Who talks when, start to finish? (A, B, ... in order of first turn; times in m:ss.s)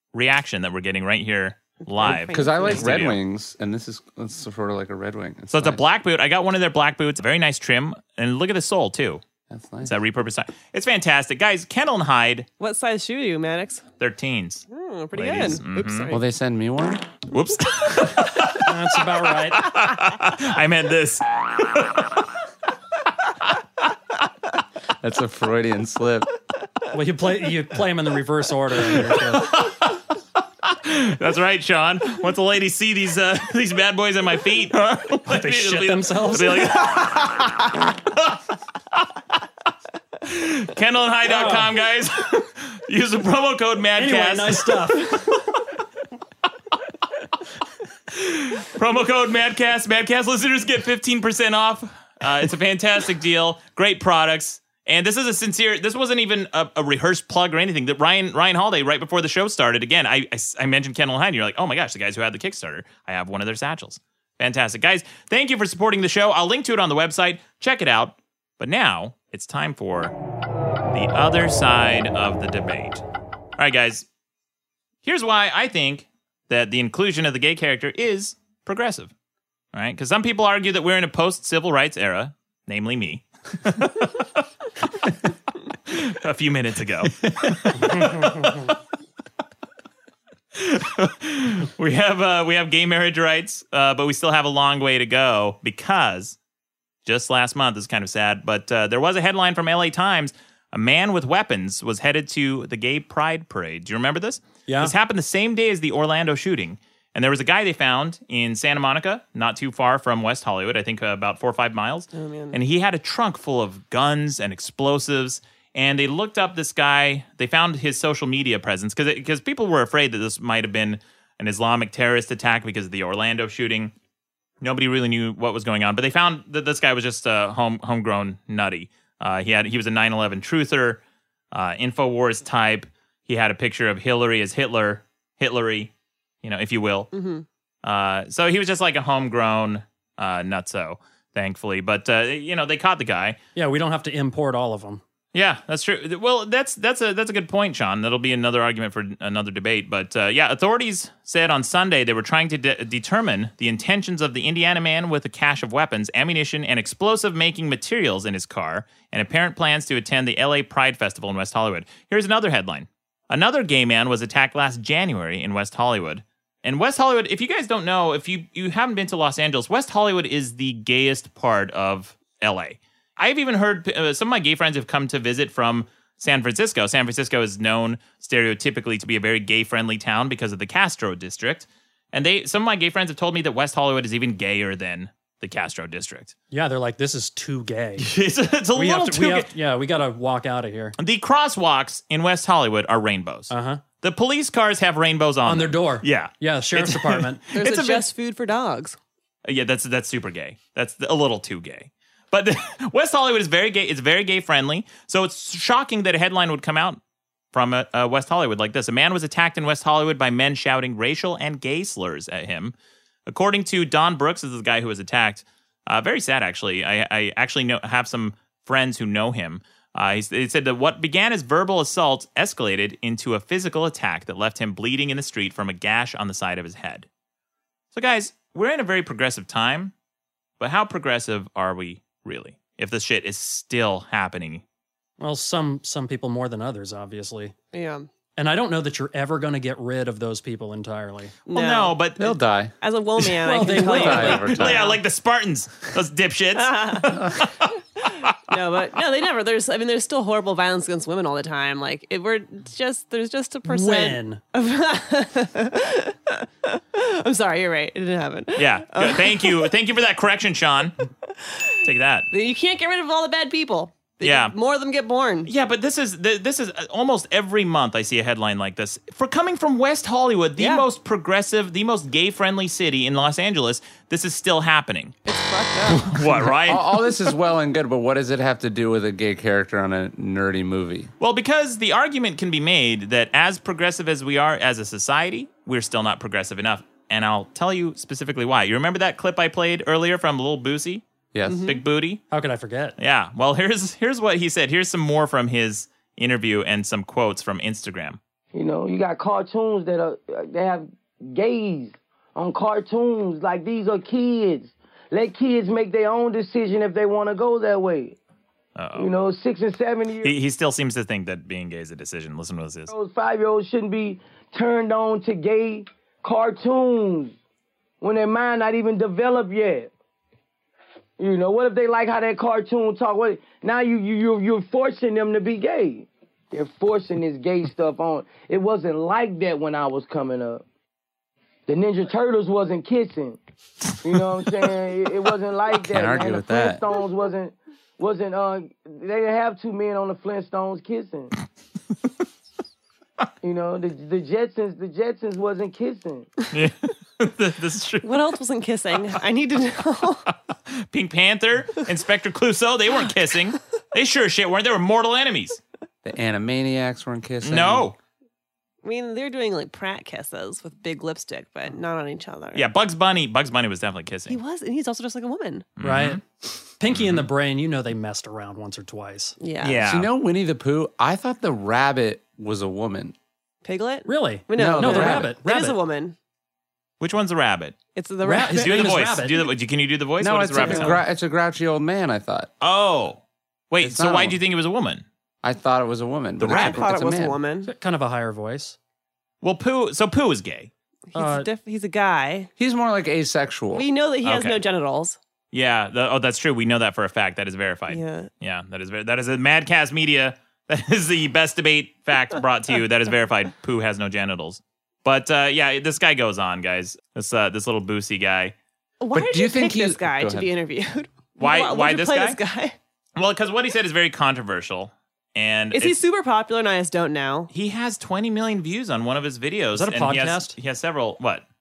0:00.1-0:03.2 A
0:01.8-0:03.0 B
0:02.1-0:05.8 C
0:05.5-0:09.2 A
0:09.5-0:10.0 C
0:09.8-0:12.5 A
0:12.6-0:13.8 B
0:14.0-0:16.1 A
0:14.7-0:16.2 B
0:16.1-0:17.0 C
0:17.3-0:18.7 A
0:18.6-0:19.7 D
0:19.4-0:22.0 A
0:25.0-0:26.3 C
0:26.9-0:29.6 D
0:29.1-0:30.0 A
0:30.6-0:37.5 A
0:35.2-0:37.0 D
0:38.1-0:38.4 A
0:40.2-0:45.4 A
0:41.3-0:41.7 D
0:44.0-0:45.4 D
0:48.1-1:10.1 A
1:10.9-1:13.0 A
1:13.6-1:14.0 A
1:15.0-1:19.1 A
1:19.7-1:24.4 A
1:25.8-1:28.7 A
1:30.5-1:36.4 A
1:37.0-2:03.9 A
1:44.7-1:44.9 D
1:52.1-1:52.6 B
2:04.6-2:11.0 A
2:11.5-2:15.9 A
2:16.4-2:17.1 A
2:17.1-2:17.4 B
2:17.8-2:23.4 A
2:23.6-2:25.0 D
2:25.3-3:06.3 A
3:06.5-3:08.1 D
3:08.0-3:09.5 A
3:08.7-3:10.9 D
3:11.0-3:18.1 A
3:13.5-3:13.8 D
3:15.4-3:17.4 D
3:17.5-3:19.0 B
3:19.4-3:27.0 A
3:27.5-3:32.7 A
3:33.3-3:47.1 A
3:47.9-3:49.9 A
3:50.6-3:54.6 A
3:55.2-3:57.5 D
3:57.7-3:58.1 B
3:58.4-4:01.4 D
4:01.4-4:02.0 B
4:01.5-4:02.3 A
4:02.2-4:04.9 C
4:02.8-4:05.0 B
4:03.4-4:04.5 D
4:04.5-4:07.7 A
4:06.6-4:07.3 B
4:08.5-4:19.6 B
4:13.6-4:14.4 D
4:18.6-4:20.9 A
4:21.3-4:21.7 B
4:21.8-4:22.3 A
4:22.3-4:25.5 B
4:24.2-4:24.5 A
4:25.4-4:35.2 A
4:30.6-4:30.8 B
4:35.2-4:36.2 B
4:36.0-4:36.9 A
4:36.6-4:41.1 C
4:41.2-4:51.0 A
4:51.3-4:51.7 C
4:51.5-4:51.8 B
4:51.6-4:52.2 A
4:52.3-4:53.0 D
4:53.0-4:58.2 A
4:58.5-5:08.2 E
5:08.8-5:09.1 A
5:09.0-5:10.3 E
5:10.2-5:12.9 A
5:12.9-5:17.4 E
5:18.0-5:19.9 E
5:21.2-5:30.6 E
5:31.7-5:33.4 E
5:34.0-5:41.3 E
5:35.7-5:36.8 C
5:43.4-5:46.3 E
5:46.5-5:48.1 A
5:48.0-5:50.3 B
5:50.7-5:55.6 A
5:56.0-5:57.9 C
5:57.4-5:58.0 A
5:58.8-6:02.7 B
6:02.5-6:04.4 A
6:04.3-6:05.7 B
6:05.8-6:06.2 A
6:05.8-6:06.2 D
6:06.8-6:09.4 D
6:06.9-6:07.2 A
6:09.4-6:09.8 B
6:09.6-6:10.1 A
6:09.8-6:13.1 C
6:13.6-6:16.1 B
6:14.0-6:15.8 D
6:14.5-6:15.3 C
6:17.0-6:17.8 A
6:17.9-6:19.0 B
6:18.2-6:19.4 D
6:18.5-6:21.0 A
6:20.2-6:22.5 C
6:22.6-6:25.0 A
6:23.8-6:24.4 C
6:25.4-6:27.4 C
6:26.4-6:26.9 A
6:26.4-6:27.7 B
6:27.6-6:28.8 D
6:29.4-6:30.7 A
6:31.1-6:32.5 B
6:31.1-6:31.5 D
6:32.6-6:33.8 C
6:33.7-6:35.2 B
6:34.2-6:34.6 A
6:35.5-6:48.5 A
6:37.9-6:38.3 B
6:49.0-6:52.8 B
6:49.1-6:50.5 C
6:51.4-6:52.4 A
6:53.2-6:56.0 A
6:55.7-6:57.5 B
6:57.5-7:01.4 A
6:59.7-7:00.5 D